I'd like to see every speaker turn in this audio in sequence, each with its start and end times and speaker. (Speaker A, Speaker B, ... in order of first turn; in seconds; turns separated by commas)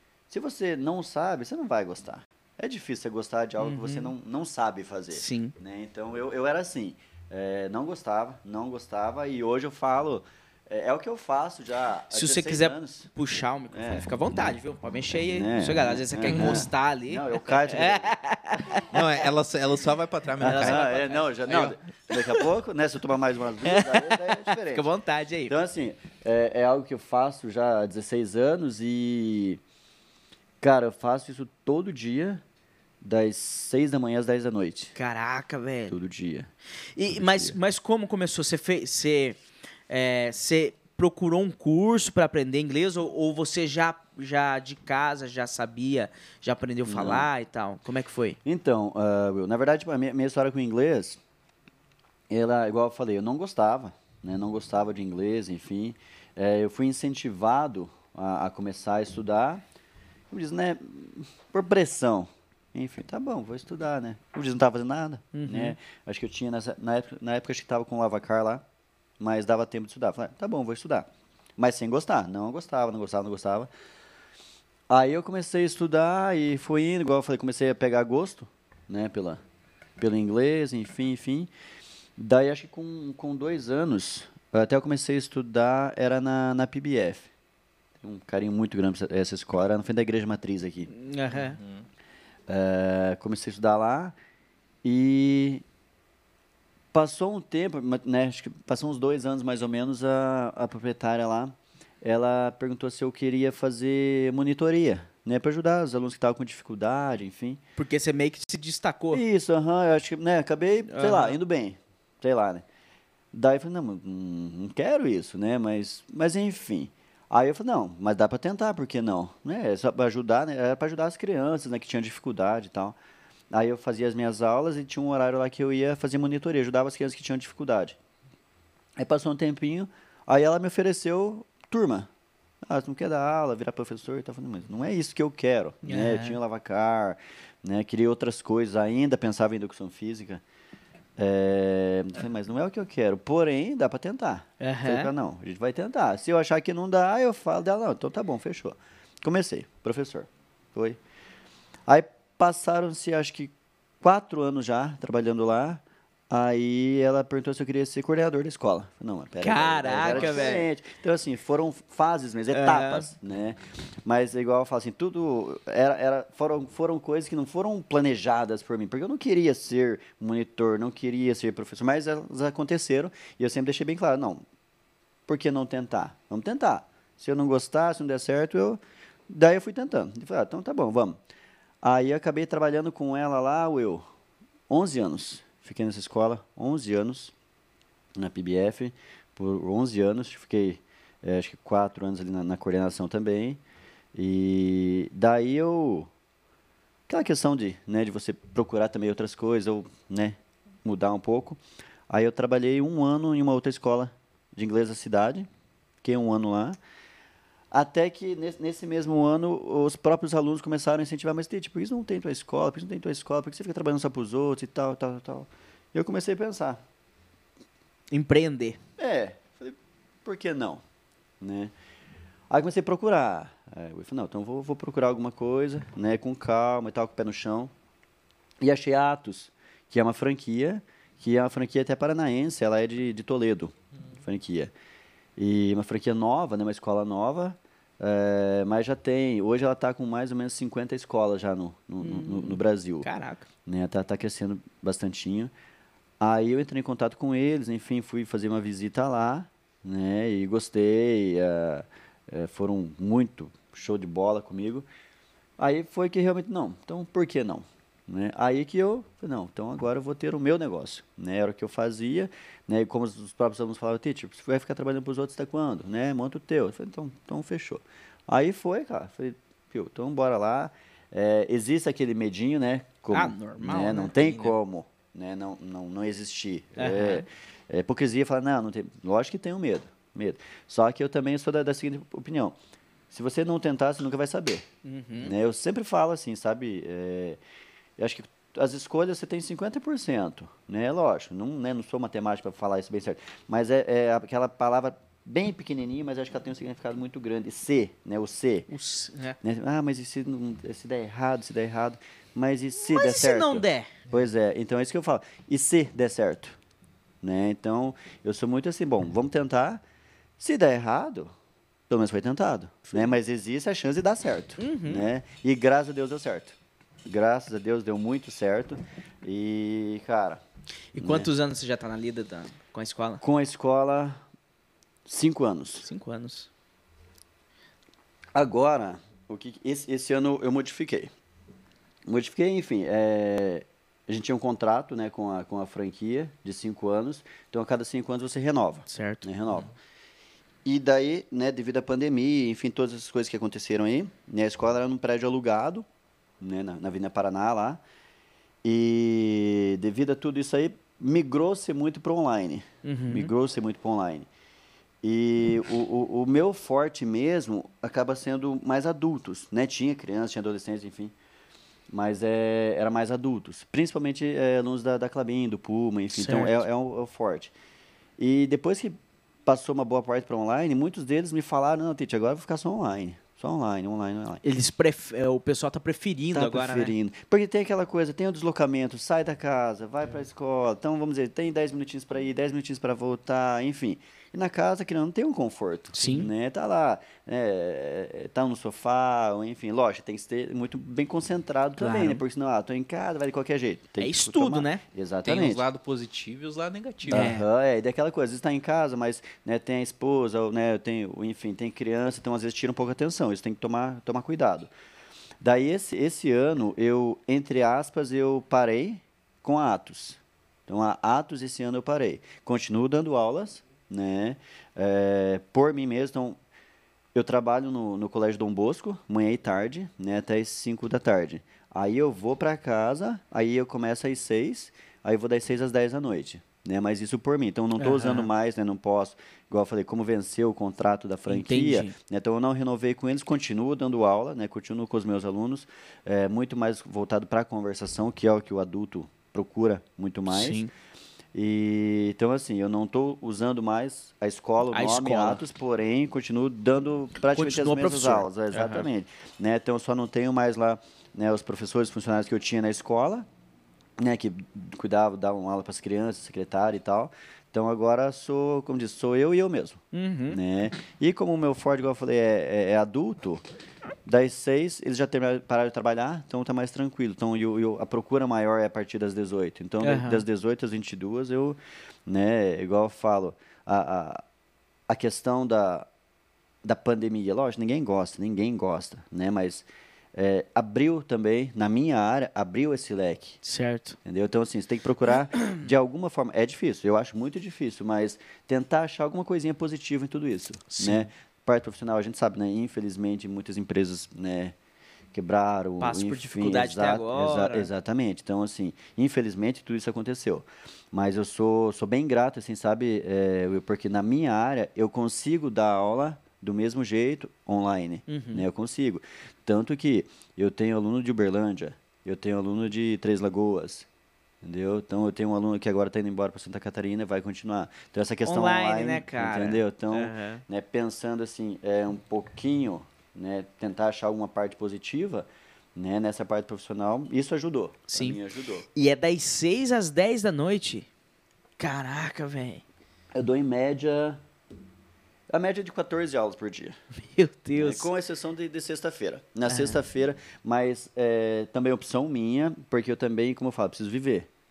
Speaker A: 0.3-13.1, Speaker B: 3.6-4.1, Speaker B: 5.1-5.5, Speaker B: 12.1-19.1, Speaker A: 13.7-14.1, Speaker A: 15.1-18.2, Speaker C: 16.3-16.7, Speaker C: 18.9-20.8, Speaker B: 20.4-22.5, Speaker A: 20.4-24.9, Speaker C: 21.5-21.8, Speaker B: 23.6-25.6, Speaker A: 25.5-29.6, Speaker A: 30.6-32.4, Speaker A: 33.0-34.9, Speaker B: 35.0-36.0, Speaker A: 35.9-36.5, Speaker B: 37.0-48.4, Speaker A: 37.1-37.6, Speaker A: 46.9-47.3, Speaker A: 48.5-51.2, Speaker A: 52.3-59.6, Speaker A: 60.3-68.6, Speaker B: 65.3-65.8, Speaker A: 69.2-73.7, Speaker A: 74.9-79.4, Speaker A: 80.0-81.5, Speaker A: 82.2-87.3, Speaker A: 88.0-90.9, Speaker B: 90.9-91.6, Speaker C: 91.4-91.8, Speaker A: 92.5-94.2, Speaker A: 94.8-95.6, Speaker A: 96.9-107.6, Speaker B: 107.8-109.2, Speaker A: 109.1-112.6, Speaker B: 110.9-111.4, Speaker A: 113.3-123.0, Speaker A: 123.5-128.0, Speaker A: 129.0-132.1, Speaker A: 132.6-140.4, Speaker B: 135.8-136.4, Speaker A: 141.2-151.0, Speaker B: 144.6-145.1, Speaker A: 151.9-174.4, Speaker B: 159.4-160.7, Speaker B: 162.5-163.1, Speaker A: 175.3-181.2, Speaker A: 181.8-184.1, Speaker A: 184.7-187.3, Speaker A: 188.2-193.6, Speaker A: 194.1-196.1, Speaker A: 197.1-205.5, Speaker A: 206.0-206.8, Speaker A: 207.7-216.8, Speaker B: 218.1-218.8, Speaker A: 219.0-220.8, Speaker A: 221.4-221.7, Speaker A: 222.5-227.7, Speaker A: 228.6-234.7, Speaker A: 235.4-243.1, Speaker B: 242.0-243.5, Speaker A: 243.7-245.5, Speaker A: 246.2-254.9, Speaker A: 255.6-282.6, Speaker B: 273.1-274.1, Speaker C: 274.1-274.6, Speaker B: 276.8-277.3, Speaker A: 283.1-284.7, Speaker B: 284.9-285.3, Speaker A: 285.2-287.4, Speaker A: 288.0-298.7, Speaker B: 298.7-299.4, Speaker A: 299.4-306.6, Speaker B: 302.8-303.9, Speaker A: 307.2-309.8, Speaker A: 310.4-311.3, Speaker A: 311.9-320.4, Speaker B: 314.6-315.1, Speaker B: 320.9-323.2, Speaker A: 321.0-321.3, Speaker A: 323.2-324.2, Speaker A: 325.1-325.9, Speaker B: 325.8-326.5, Speaker A: 328.3-331.1, Speaker A: 332.1-339.7, Speaker B: 338.9-339.3, Speaker A: 340.6-345.9, Speaker A: 346.4-347.8, Speaker A: 348.6-354.3, Speaker B: 352.8-353.3, Speaker A: 355.0-361.1, Speaker A: 361.9-367.5, Speaker B: 366.1-366.6, Speaker A: 368.2-374.4, Speaker B: 374.4-376.9, Speaker A: 376.3-395.6, Speaker B: 385.9-386.3, Speaker B: 391.8-392.2, Speaker B: 394.0-394.8, Speaker C: 395.2-397.3, Speaker A: 397.1-404.7, Speaker B: 397.1-397.5, Speaker A: 405.4-416.4, Speaker A: 417.1-440.6, Speaker B: 427.8-428.3, Speaker B: 431.3-432.0, Speaker B: 440.3-440.7, Speaker A: 441.3-453.3, Speaker B: 444.7-445.4, Speaker B: 447.3-448.9, Speaker A: 454.0-463.4, Speaker B: 459.9-460.4, Speaker A: 464.1-474.2, Speaker B: 469.8-470.2, Speaker A: 474.9-475.9, Speaker A: 476.6-483.4, Speaker B: 483.4-484.0, Speaker A: 484.1-494.6, Speaker B: 490.7-491.1, Speaker A: 495.1-513.9, Speaker B: 495.8-497.7, Speaker B: 508.1-508.5, Speaker A: 514.4-528.7, Speaker B: 518.2-520.4, Speaker B: 527.9-528.2, Speaker B: 528.7-530.9, Speaker B: 531.6-532.6, Speaker A: 533.1-534.2, Speaker A: 535.3-536.8, Speaker B: 537.1-537.9, Speaker A: 537.6-544.3, Speaker B: 539.5-539.8